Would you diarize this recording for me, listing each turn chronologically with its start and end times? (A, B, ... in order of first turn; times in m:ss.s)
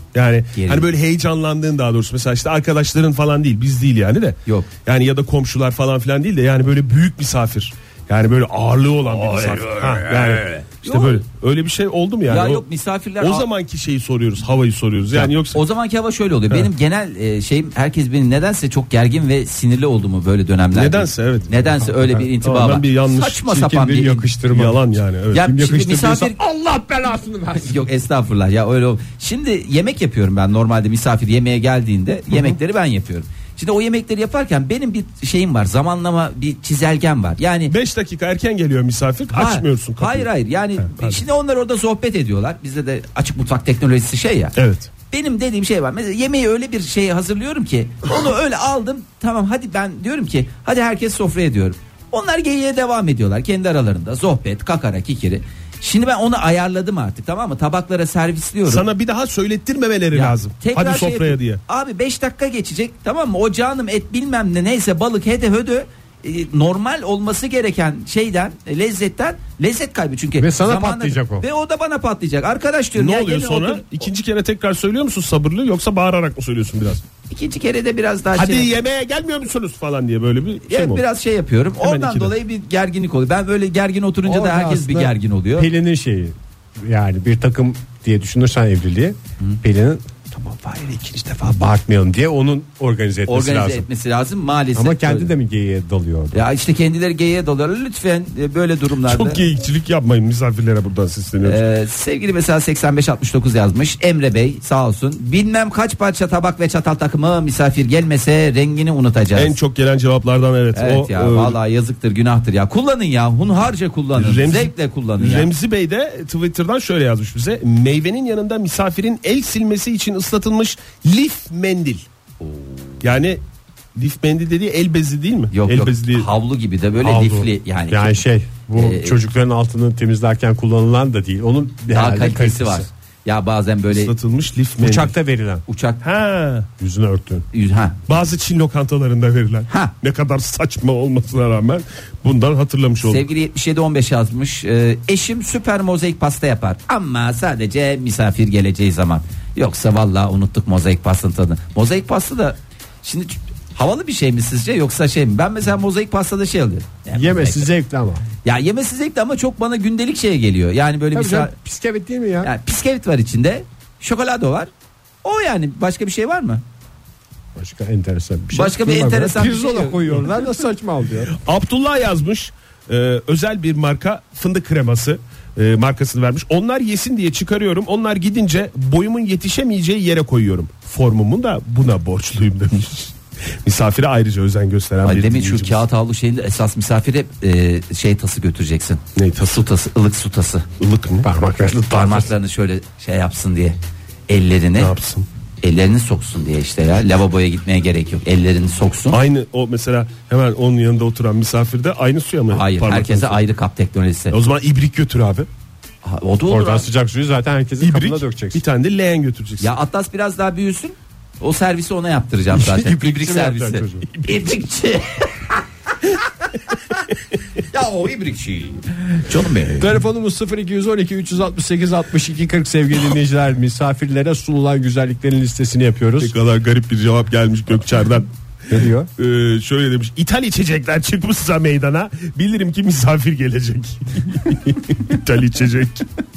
0:00.1-0:12.6 A
0:00.6-0:00.9 B
0:09.0-0:11.2 B
0:12.3-0:13.5 B
0:13.2-0:15.6 A
0:15.1-0:24.3 B
0:20.7-0:21.6 A
0:21.8-0:22.3 C
0:22.4-0:23.5 A
0:23.5-0:27.8 C
0:24.5-0:25.5 A
0:25.3-0:26.4 B
0:27.6-0:37.7 B
0:37.7-0:41.2 A
0:39.3-0:44.5 B
0:44.6-0:44.9 A
0:45.1-0:58.8 B
0:58.7-1:01.6 A
1:00.1-1:13.9 B
1:10.4-1:11.5 C
1:13.0-1:17.0 A
1:17.3-1:18.8 B
1:18.4-1:21.0 A
1:20.7-1:25.7 B
1:21.8-1:22.4 A
1:24.2-1:33.9 C
1:33.3-1:35.3 B
1:34.8-1:36.4 C
1:36.3-1:39.4 B
1:39.1-1:41.6 A
1:41.4-1:49.6 B
1:49.4-1:51.6 A
1:50.7-1:55.5 B
1:54.2-2:02.0 A
2:02.4-2:03.0 B
2:03.0-2:03.4 A
2:04.0-2:06.3 A
2:05.5-2:08.2 B
2:07.0-2:07.4 C
2:07.9-2:12.9 C
2:08.8-2:09.2 B
2:11.9-2:14.1 B
2:13.9-2:15.1 A
2:14.8-2:15.6 C
2:15.7-2:16.0 B
2:16.0-2:16.7 A
2:16.8-2:17.5 C
2:17.5-2:18.0 B
2:18.1-2:23.3 A
2:23.0-2:37.7 B
2:37.1-2:38.2 C
2:38.4-2:41.5 B
2:41.1-2:42.5 C
2:42.4-2:44.7 B
2:45.2-2:46.6 B
2:47.6-2:51.3 C
2:48.5-2:50.4 B
2:51.4-3:05.8 A
3:05.0-3:10.7 B
3:09.2-3:09.6 A
3:10.8-3:11.3 A
3:11.2-3:12.3 C
3:11.9-3:13.8 B
3:14.3-3:14.9 B
3:14.8-3:15.3 A
3:15.6-3:19.2 B
3:19.1-3:23.4 A
3:22.5-3:24.4 B
3:24.3-3:25.5 A
3:26.0-3:26.9 B
3:26.5-3:28.6 C
3:27.8-3:29.7 A
3:29.6-3:35.6 B
3:32.5-3:34.1 C
3:37.7-3:39.9 B
3:39.8-3:46.3 C
3:46.2-3:48.3 A
3:48.7-3:49.1 C
3:49.2-3:56.1 A